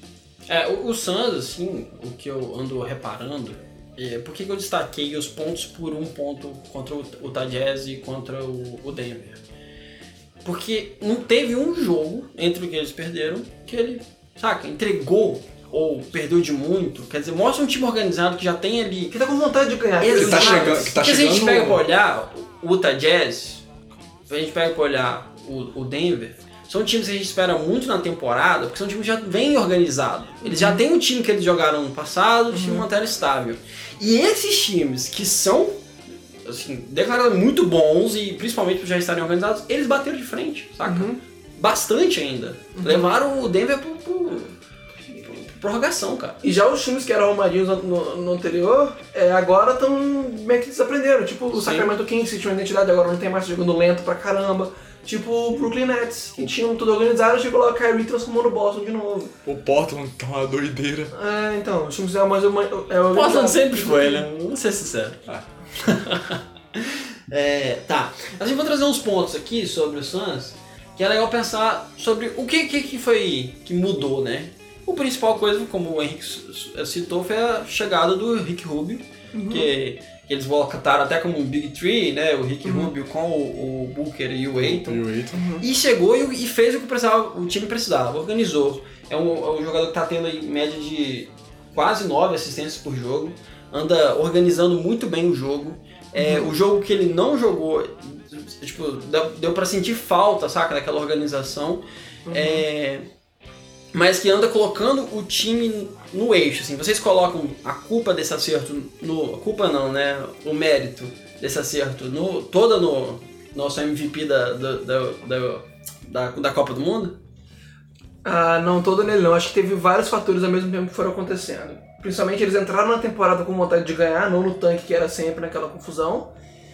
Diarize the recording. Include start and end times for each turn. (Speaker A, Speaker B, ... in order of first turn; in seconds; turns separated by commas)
Speaker A: 0.5-9.4, Speaker A: 10.4-19.2, Speaker B: 19.1-20.9, Speaker A: 20.0-23.6, Speaker C: 20.1-21.8, Speaker A: 24.3-35.8, Speaker B: 30.4-30.8, Speaker B: 32.5-32.9, Speaker A: 36.5-44.5, Speaker B: 40.9-41.2, Speaker B: 42.8-43.1, Speaker A: 45.1-46.4, Speaker B: 46.4-59.3, Speaker A: 51.5-51.9, Speaker C: 59.5-61.1, Speaker B: 61.1-64.3, Speaker A: 63.1-65.2, Speaker A: 65.8-85.0, Speaker B: 79.3-79.7, Speaker B: 82.7-82.9, Speaker C: 84.6-85.4, Speaker B: 85.3-85.6, Speaker A: 85.6-103.1, Speaker B: 96.2-96.5, Speaker B: 102.3-102.6, Speaker A: 103.9-117.2, Speaker B: 118.2-126.3